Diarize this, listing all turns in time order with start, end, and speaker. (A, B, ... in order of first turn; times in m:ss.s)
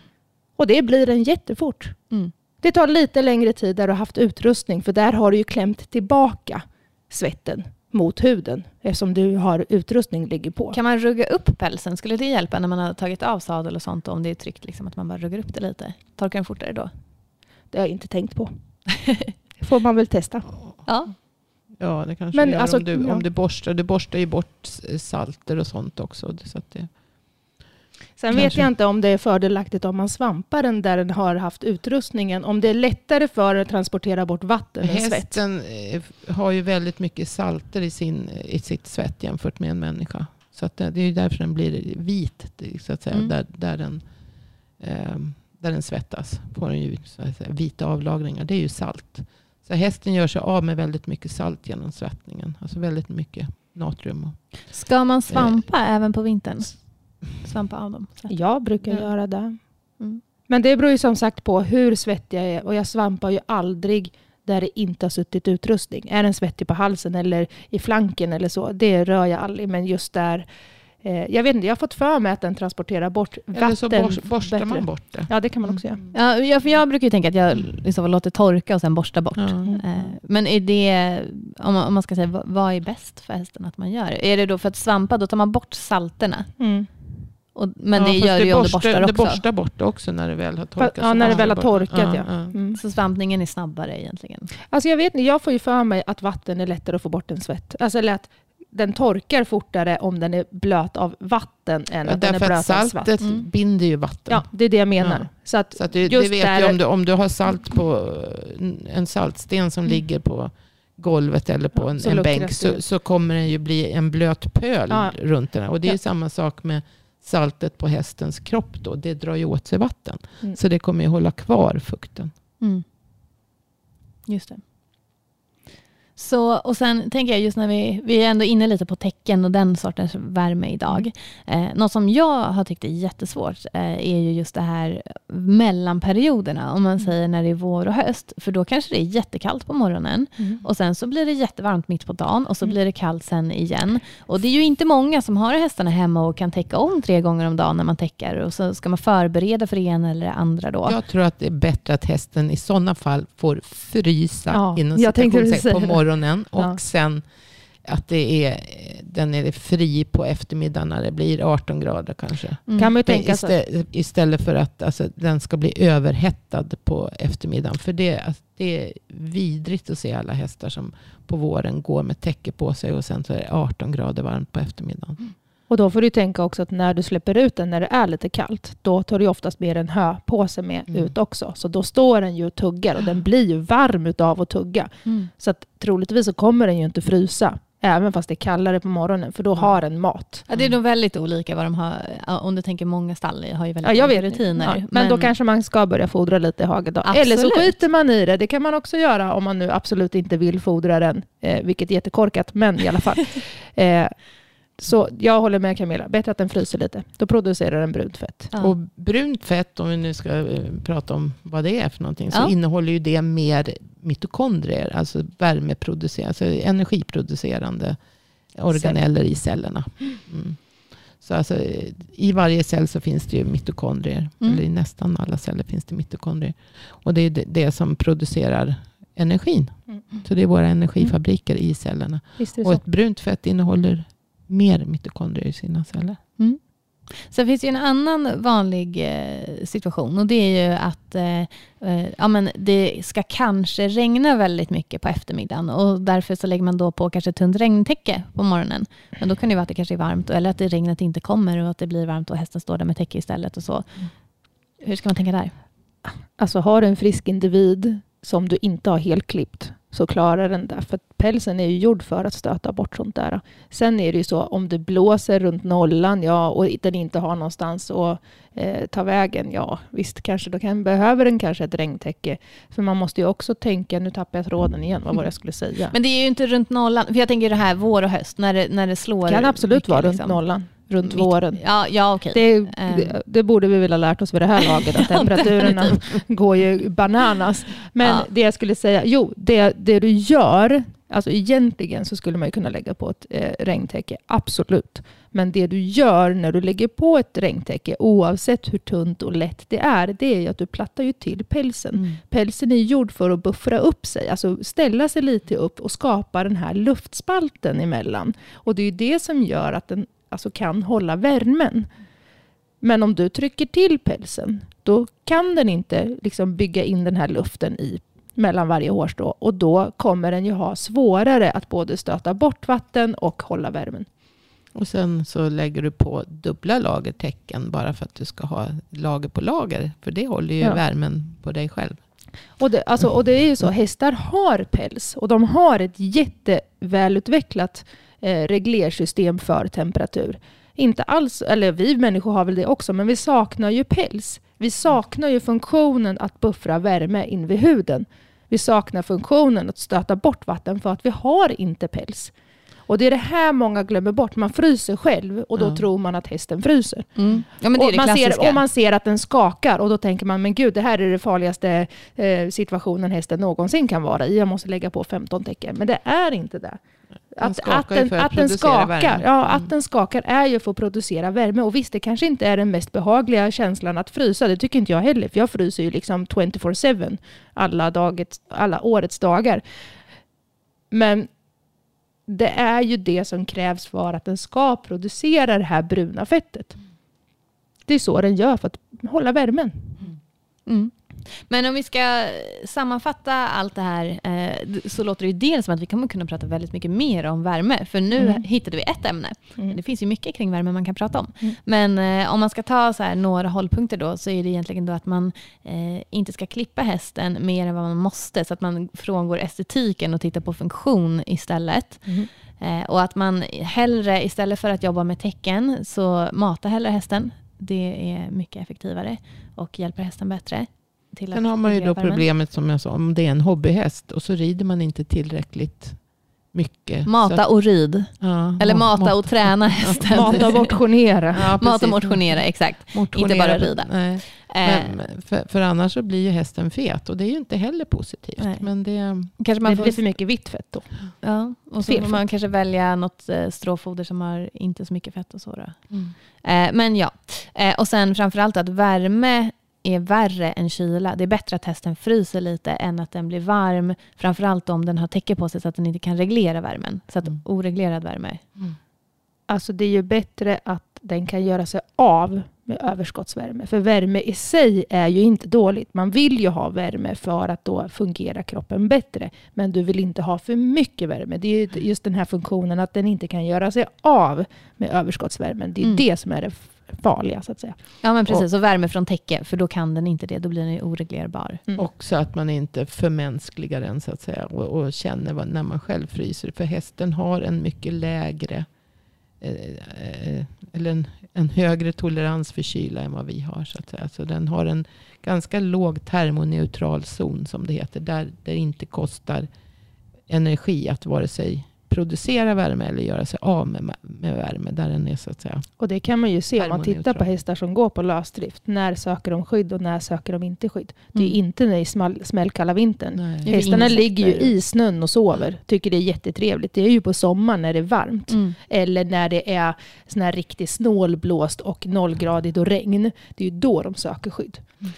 0:00.6-0:02.0 A
0:02.6-0:10.8 A
0:10.7-0:16.9 B
0:17.7-0:18.5 A
0:19.1-0:19.3 B
0:19.6-0:20.6 A
0:20.8-0:21.1 B
0:21.8-0:26.9 C
0:22.3-0:23.2 A
0:28.2-0:35.4 A
0:28.3-0:28.6 C
0:34.8-0:44.0 C
0:44.8-0:54.4 C
0:54.7-0:56.8 B
0:55.3-0:55.6 C
0:57.4-0:58.3 B
0:58.3-0:59.6 A
1:00.5-1:10.5 A
1:11.0-1:16.0 A
1:13.5-1:15.8 C
1:16.1-1:26.5 B
1:19.4-1:19.8 C
1:26.6-1:26.9 A
1:27.5-1:29.4 B
1:28.0-1:32.5 C
1:30.8-1:32.8 A
1:31.2-1:31.5 B
1:32.7-1:34.5 B
1:34.7-1:43.2 A
1:42.0-1:44.5 C
1:43.2-1:43.5 B
1:44.3-1:46.8 A
1:45.0-2:02.3 C
1:52.0-1:52.8 A
1:54.9-1:55.2 A
2:04.3-2:04.6 B
2:06.2-2:31.0 B
2:30.9-2:37.3 C
2:34.5-2:36.0 A
2:37.8-2:55.3 C
2:42.7-2:42.9 B
2:42.8-2:43.5 A
2:55.7-3:10.4 A
3:10.5-3:15.3 B
3:13.8-3:24.2 A
3:17.1-3:17.8 B
3:24.8-3:28.5 A
3:28.6-3:38.0 C
3:38.5-3:40.6 C
3:41.2-3:56.2 C
3:52.4-3:52.8 A
3:57.2-4:14.0 B
4:14.8-4:15.5 B
4:16.1-4:35.9 A
4:35.9-4:40.4 B
4:39.3-4:41.6 A
4:41.0-4:43.2 B
4:42.3-5:11.9 A
4:45.0-4:46.0 B
5:12.8-5:24.1 A
5:24.7-5:32.0 C
5:32.6-5:52.3 A
5:52.9-5:57.1 A
5:55.6-5:55.8 C
5:57.2-5:58.6 B
5:57.7-6:06.8 A
6:07.4-6:19.6 A
6:07.4-6:09.7 C
6:20.9-6:21.3 A
6:22.3-6:26.8 A
6:27.9-6:30.1 A
6:30.7-7:02.2 B
6:38.2-6:38.4 A
7:01.3-7:06.0 C
7:06.5-7:07.4 C
7:07.1-7:10.8 B
7:08.1-7:10.4 C
7:10.0-7:11.5 A
7:11.3-7:19.3 C
7:11.6-7:15.0 B
7:18.4-7:18.7 B
7:19.4-7:20.0 B
7:19.6-7:21.0 A
7:21.2-7:25.8 B
7:21.8-7:22.2 A
7:26.4-7:38.4 B
7:39.5-7:57.8 A
7:58.0-8:01.6 B
8:01.8-8:08.7 C
8:09.4-8:19.5 C
8:20.3-8:25.7 C
8:25.8-8:44.7 A
8:26.6-8:27.3 C
8:33.2-8:33.8 C
8:33.5-8:34.5 B
8:38.3-8:38.6 B